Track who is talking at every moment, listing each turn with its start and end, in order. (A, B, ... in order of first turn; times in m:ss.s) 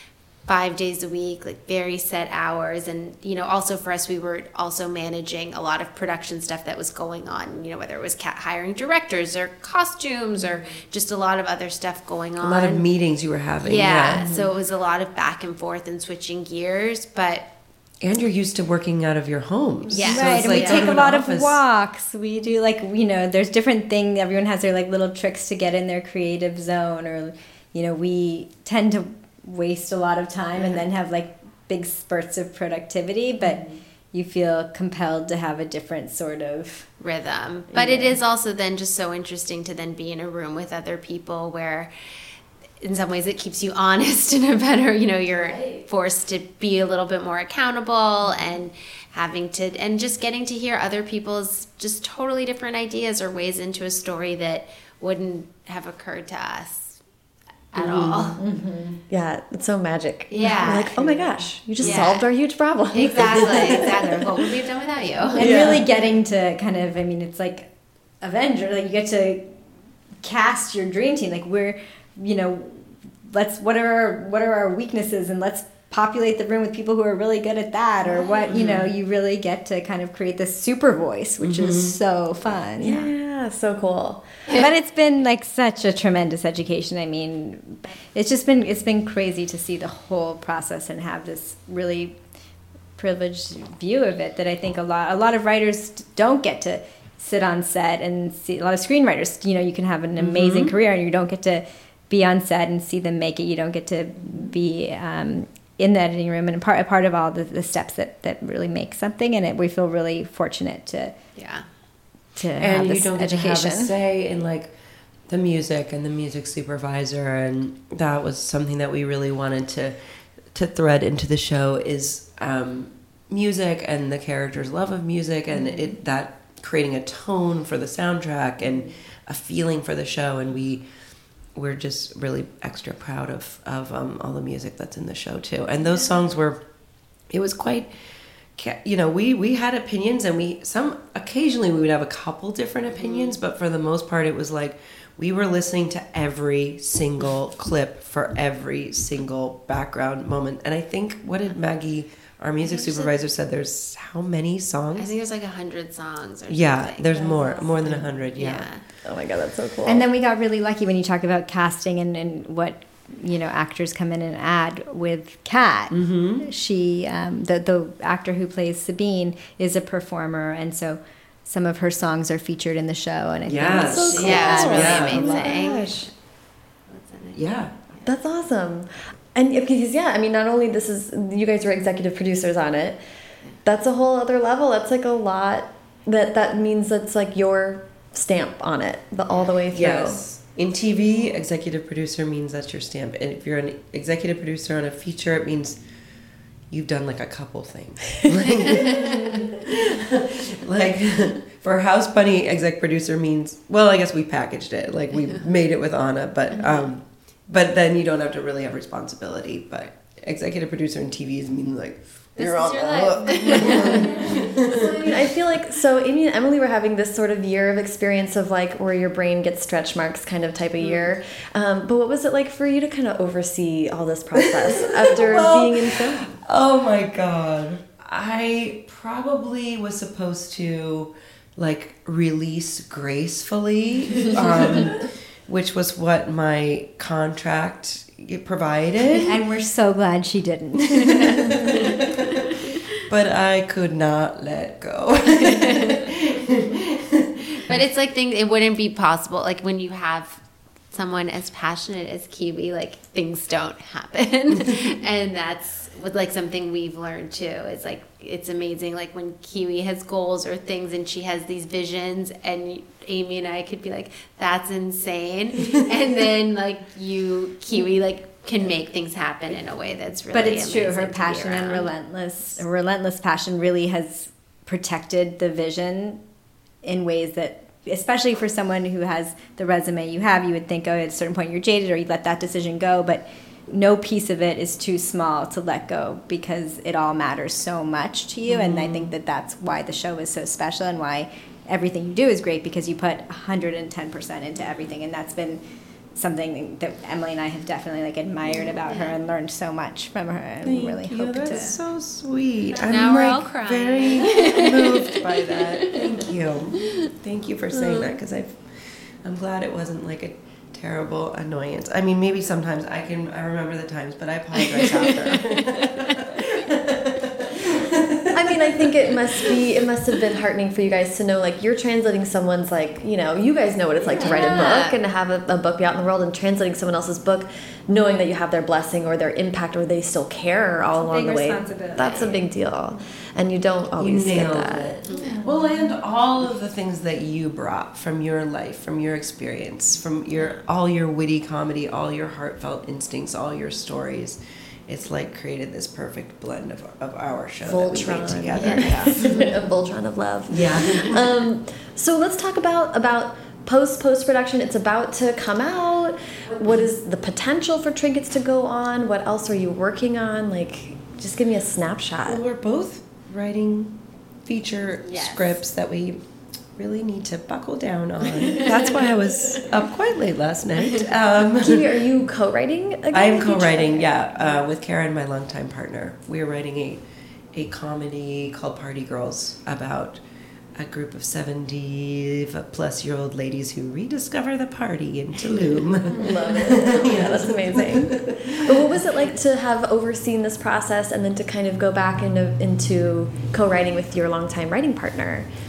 0:00.5-0:12.8 A
0:12.4-0:14.3 B
0:13.6-0:17.5 A
0:18.0-0:21.6 B
0:19.9-0:21.0 A
0:20.0-0:36.9 C
0:37.0-0:41.9 A
0:37.7-0:38.2 D
0:42.8-0:57.0 A
0:45.3-0:45.8 D
0:57.7-0:58.4 A
0:57.8-0:58.4 B
0:58.4-0:59.0 C
0:59.1-1:04.4 D
1:00.3-1:02.3 A
1:02.9-1:05.6 A
1:05.3-1:05.8 D
1:05.4-1:07.7 C
1:08.2-1:09.5 C
1:10.2-1:23.1 C
1:18.5-1:18.8 B
1:21.4-1:22.0 B
1:22.8-1:24.3 D
1:24.5-1:32.2 C
1:33.0-1:51.2 C
1:40.2-1:40.7 B
1:51.4-1:51.6 A
1:52.4-1:53.9 C
1:52.6-1:54.7 B
1:55.3-2:00.0 B
2:00.5-2:10.8 B
2:11.6-2:16.6 B
2:17.3-2:17.9 B
2:18.6-2:35.1 B
2:23.0-2:23.4 A
2:32.6-2:33.1 A
2:35.0-2:37.3 A
2:36.5-2:38.7 B
2:37.1-2:38.2 D
2:38.4-2:38.8 A
2:39.0-2:40.1 D
2:39.8-2:55.8 C
2:45.9-2:46.5 B
2:53.5-2:55.3 B
2:53.9-2:56.1 D
2:53.9-2:56.1 A
2:56.9-2:58.0 A
2:57.3-2:57.7 B
2:58.0-3:03.0 D
3:03.6-3:10.2 D
3:09.7-3:15.8 B
3:16.7-3:35.2 B
3:18.9-3:19.2 A
3:32.4-3:34.3 A
3:33.8-3:46.3 D
3:44.4-3:59.4 B
3:59.2-4:01.7 C
4:01.0-4:07.8 B
4:05.5-4:06.0 A
4:07.7-4:31.9 A
4:30.3-4:36.2 C
4:36.8-4:55.6 C
4:48.5-4:49.1 B
4:56.2-5:01.8 C
5:00.6-5:19.7 B
5:02.8-5:06.2 A
5:06.8-5:07.1 A
5:07.7-5:08.2 A
5:14.6-5:16.2 A
5:18.3-5:35.0 D
5:24.1-5:24.8 C
5:24.1-5:25.0 A
5:31.0-5:32.4 C
5:32.0-5:32.3 A
5:34.0-5:49.3 B
5:35.1-5:35.4 A
5:47.6-6:02.4 D
5:48.5-5:49.5 A
5:50.5-5:51.4 B
6:02.2-6:06.2 B
6:05.1-6:05.6 A
6:06.8-6:12.0 B
6:08.4-6:08.9 A
6:11.5-6:14.7 D
6:13.1-6:20.2 B
6:20.8-6:29.0 B
6:26.1-6:35.5 D